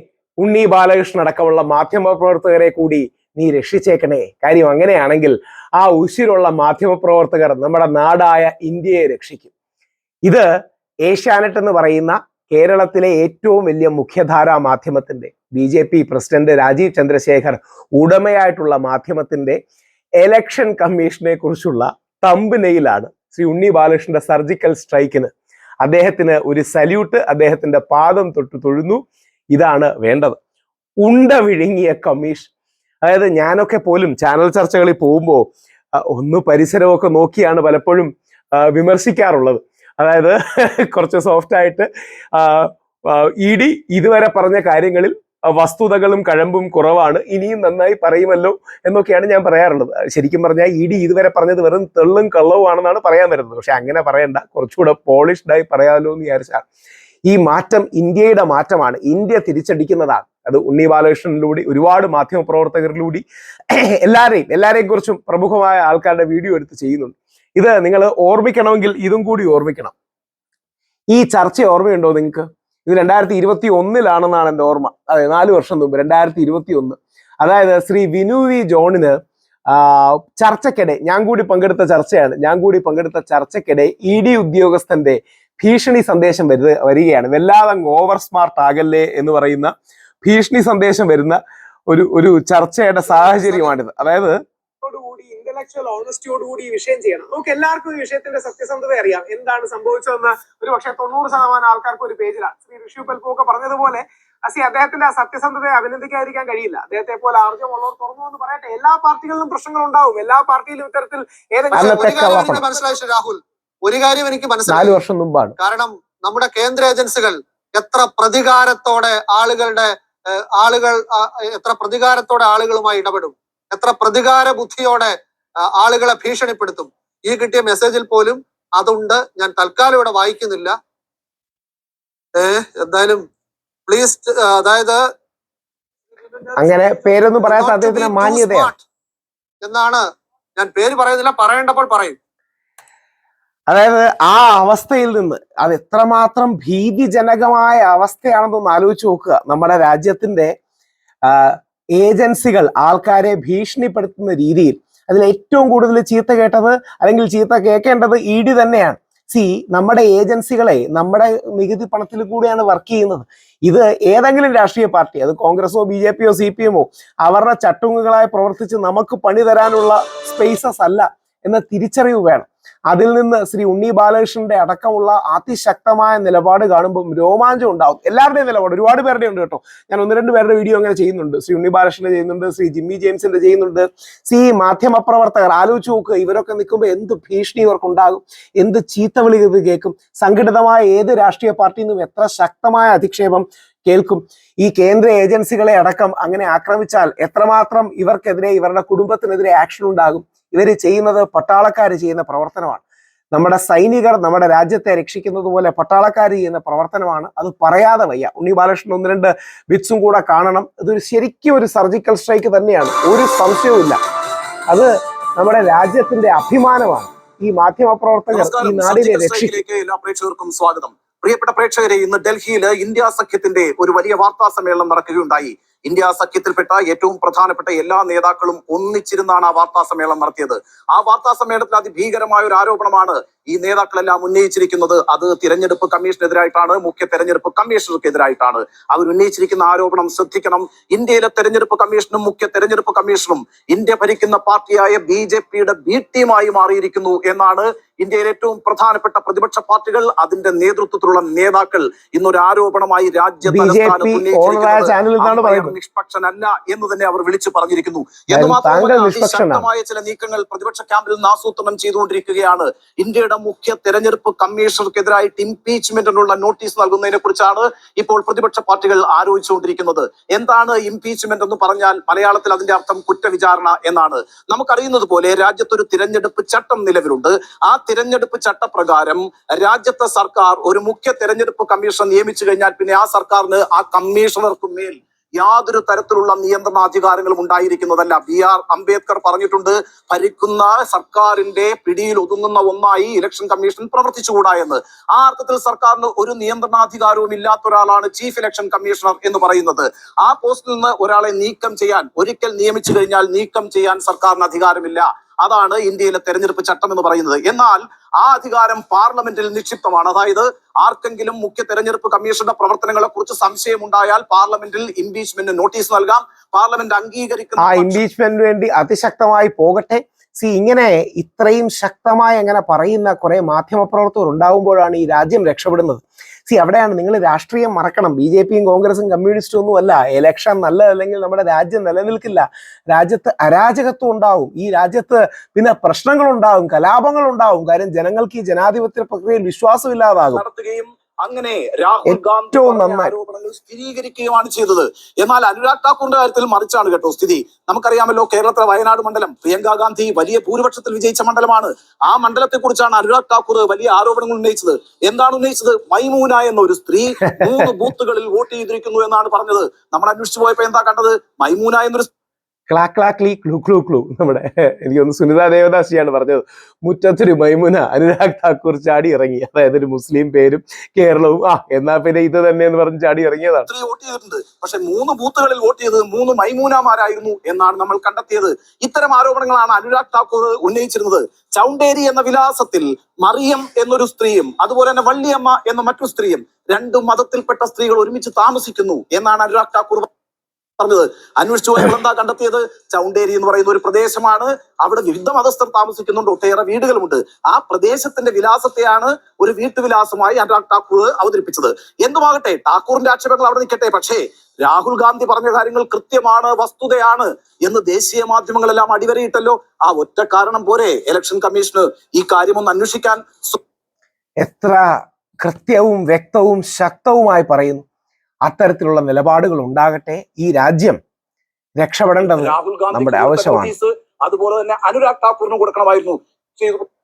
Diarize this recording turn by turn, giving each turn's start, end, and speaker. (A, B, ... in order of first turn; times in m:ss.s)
0:00.4-0:09.5 A
0:11.1-0:19.6 A
0:20.2-0:25.3 A
0:25.8-0:29.0 A
0:29.5-0:30.4 A
0:31.0-0:32.5 A
0:33.0-0:35.5 A
0:36.0-0:56.6 A
0:57.3-1:03.2 A
1:04.0-1:09.9 A
1:11.1-1:19.2 A
1:19.7-1:29.7 A
1:30.2-1:31.4 A
1:31.9-1:44.0 A
1:33.3-1:33.6 B
1:41.9-1:42.4 C
1:43.0-1:44.0 C
1:44.5-1:51.2 C
1:44.7-1:47.8 A
1:48.3-1:48.8 A
1:51.7-1:55.0 D
1:51.7-1:52.7 A
1:54.7-1:55.6 A
1:55.6-2:00.0 D
2:00.5-2:05.2 D
2:05.8-2:10.8 D
2:12.4-2:13.2 D
2:13.9-2:15.0 D
2:16.2-2:18.8 D
2:16.6-2:18.7 A
2:19.6-2:20.0 D
2:20.6-2:22.2 D
2:23.7-2:30.6 A
2:31.3-3:22.8 A
3:23.3-3:34.0 A
3:34.7-3:39.6 A
3:38.3-5:18.0 B
4:13.5-4:15.7 A
4:18.3-4:19.7 A
5:17.6-5:40.4 A
5:40.3-6:02.1 B
5:42.1-5:43.2 A
6:02.7-6:13.7 A
6:13.7-6:30.1 B
6:30.8-6:53.6 B
6:54.4-6:54.8 A
6:55.4-6:57.8 A
6:58.5-7:01.0 A
7:01.8-7:03.7 A
7:02.2-7:06.9 B